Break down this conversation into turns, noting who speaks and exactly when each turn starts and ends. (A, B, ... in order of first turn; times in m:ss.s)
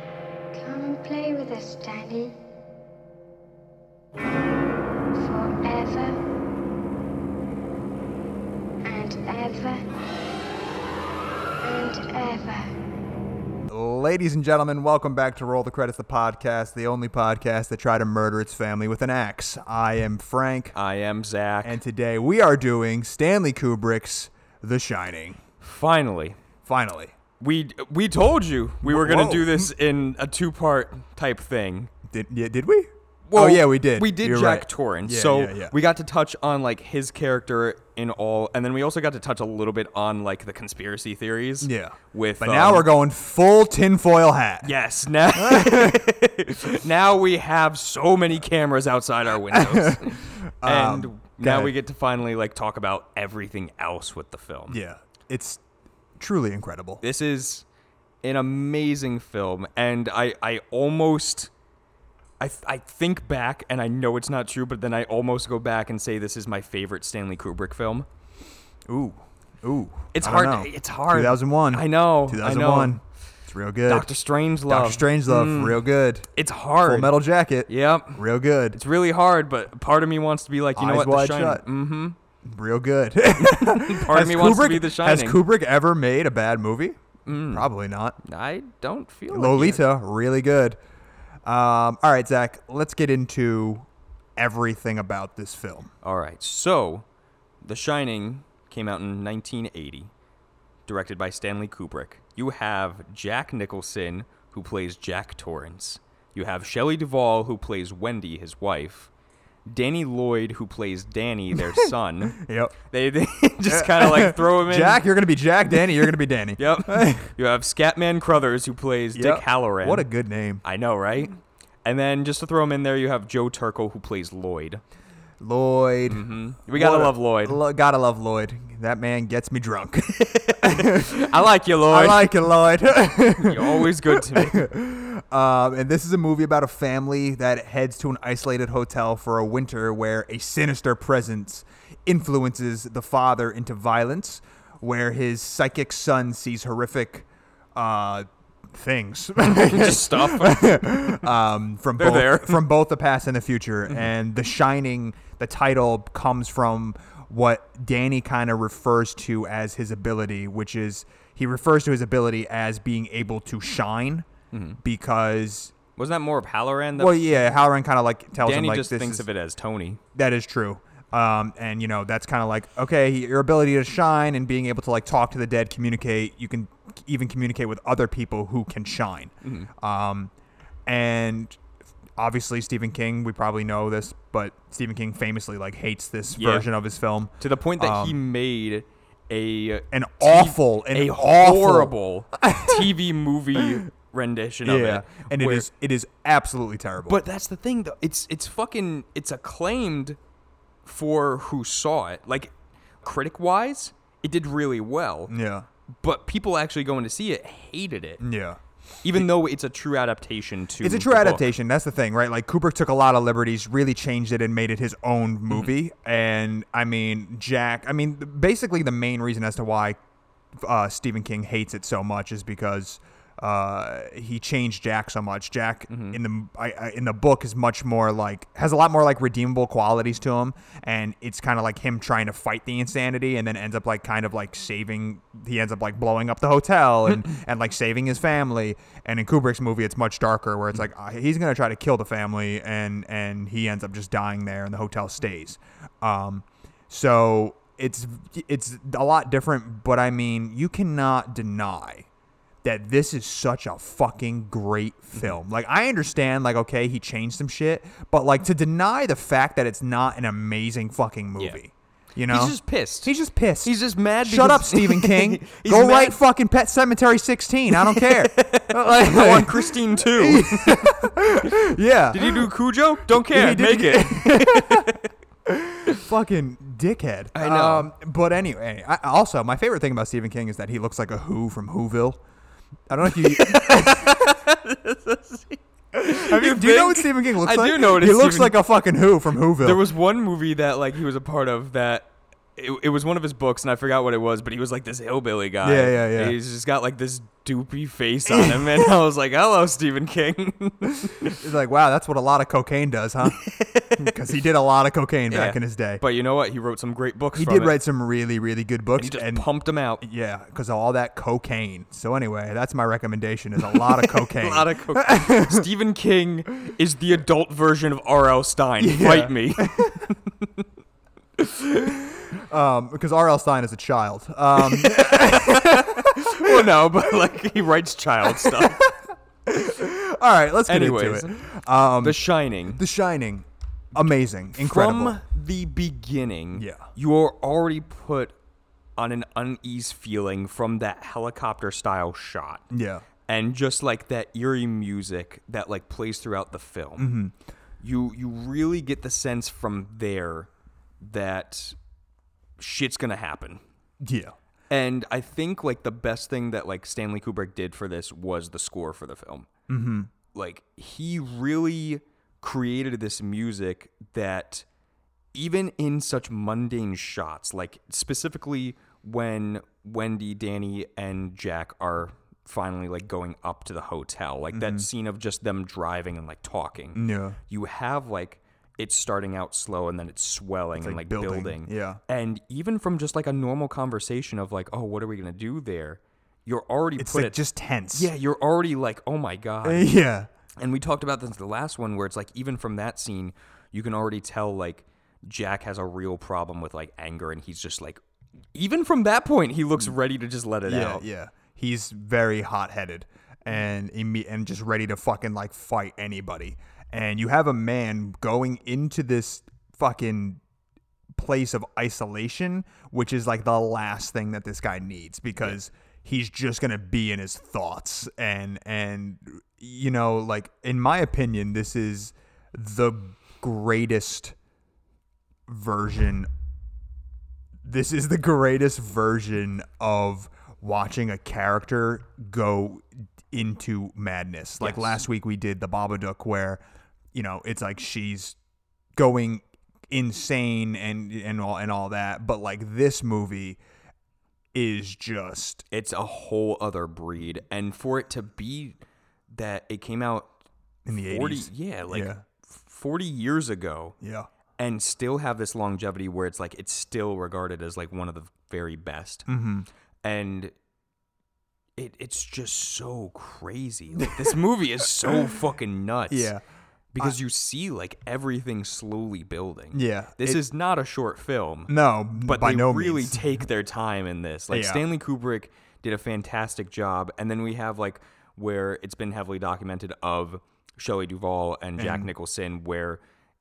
0:00.5-0:02.4 A
0:05.1-0:06.2 A
0:08.8-0:09.8 A
0:11.6-0:12.7 A
0:13.7-0:20.8 B
0:20.7-0:21.8 C
0:21.6-0:25.4 B
0:25.6-0:26.4 C
0:26.6-0:27.1 B
0:27.4-0:31.9 C
0:28.8-0:29.7 B
0:32.1-0:35.7 B
0:33.3-0:42.9 C
0:41.6-0:44.7 B
0:44.6-0:54.8 C
0:45.4-0:46.1 B
0:49.5-0:51.8 B
0:54.7-0:55.6 B
0:56.2-0:57.0 B
0:57.0-0:57.6 C
0:58.2-1:01.5 C
1:02.4-1:08.1 C
1:08.9-1:14.2 B
1:10.1-1:13.0 C
1:13.9-1:15.8 C
1:14.7-1:16.3 B
1:16.4-1:22.2 C
1:16.8-1:18.8 B
1:20.8-1:21.6 B
1:22.4-1:28.2 B
1:23.4-1:25.4 C
1:27.3-1:27.7 C
1:28.2-1:29.8 C
1:29.3-1:30.8 B
1:31.5-1:35.9 B
1:36.0-1:37.1 C
1:37.6-1:40.1 C
1:40.9-1:49.1 C
1:49.7-1:55.0 C
1:51.7-1:52.8 B
1:53.7-1:57.3 B
1:55.7-2:00.1 C
1:59.1-2:00.6 B
2:00.6-2:04.8 C
2:05.4-2:11.3 B
2:06.1-2:07.6 C
2:10.1-2:12.3 C
2:11.9-2:44.3 B
2:13.4-2:14.7 C
2:29.4-2:31.3 C
2:32.0-2:32.6 C
2:44.5-2:44.8 C
2:44.8-2:45.8 B
2:46.0-2:47.2 C
2:47.0-2:49.3 B
2:48.4-2:50.0 C
2:50.1-3:00.3 B
2:59.4-2:59.7 C
3:00.9-3:01.6 B
3:02.2-3:08.2 B
3:06.4-3:06.7 C
3:07.4-3:15.7 C
3:09.9-3:12.8 B
3:14.6-3:17.2 B
3:17.1-3:20.2 C
3:20.8-3:25.3 C
3:25.3-3:25.7 B
3:25.9-3:28.2 C
3:28.2-3:28.6 B
3:29.0-3:31.5 C
3:30.8-3:40.0 B
3:40.6-4:12.1 B
3:45.9-3:46.2 C
4:12.6-4:23.7 B
4:22.3-4:23.1 C
4:23.6-4:26.2 C
4:24.2-4:32.5 B
4:27.7-4:31.5 C
4:32.1-4:35.1 C
4:33.1-4:34.9 B
4:35.5-4:42.2 B
4:37.4-4:37.9 C
4:42.9-4:44.2 B
4:43.0-4:48.6 C
4:46.1-4:49.8 B
4:49.6-5:01.4 C
4:55.6-4:56.4 B
4:58.3-4:58.8 B
5:01.2-5:06.0 B
5:03.2-5:04.2 C
5:05.3-5:07.8 C
5:07.4-5:09.5 B
5:09.0-5:10.0 C
5:10.0-5:15.7 B
5:13.6-5:20.7 C
5:18.8-5:20.1 B
5:21.4-5:22.0 C
5:22.3-5:26.7 B
5:24.6-5:28.9 C
5:28.3-5:35.2 B
5:30.7-5:31.5 C
5:32.0-5:32.8 C
5:34.6-5:38.4 C
5:36.6-5:36.9 B
5:39.0-5:42.7 C
5:42.7-5:43.0 B
5:43.2-5:47.2 C
5:47.0-5:47.3 B
5:47.8-5:51.8 C
5:52.6-5:53.6 C
5:54.0-5:54.4 B
5:54.7-5:59.5 C
5:59.7-6:00.1 B
6:00.3-6:04.7 C
6:05.3-6:27.4 C
6:14.5-6:14.9 B
6:17.0-6:17.4 B
6:20.8-6:22.0 B
6:27.0-6:28.1 B
6:27.9-6:29.9 C
6:29.6-6:30.3 B
6:30.6-6:38.0 C
6:38.5-6:41.0 C
6:40.7-6:50.4 B
6:51.2-7:04.4 B
7:05.5-7:06.3 B
7:07.6-7:16.6 B
7:14.6-7:15.0 C
7:17.1-7:18.4 B
7:19.0-7:23.6 B
7:24.5-7:25.6 B
7:25.7-7:28.8 C
7:29.3-7:30.3 C
7:30.9-7:32.2 B
7:30.9-7:34.0 C
7:34.0-7:34.3 B
7:34.6-7:39.3 C
7:39.3-7:39.7 B
7:40.0-7:40.6 C
7:41.8-7:46.3 C
7:44.0-7:44.4 B
7:46.1-7:46.4 B
7:46.9-8:03.0 C
7:49.7-7:50.4 B
7:51.7-7:53.3 B
7:54.5-7:54.8 B
8:01.8-8:02.1 B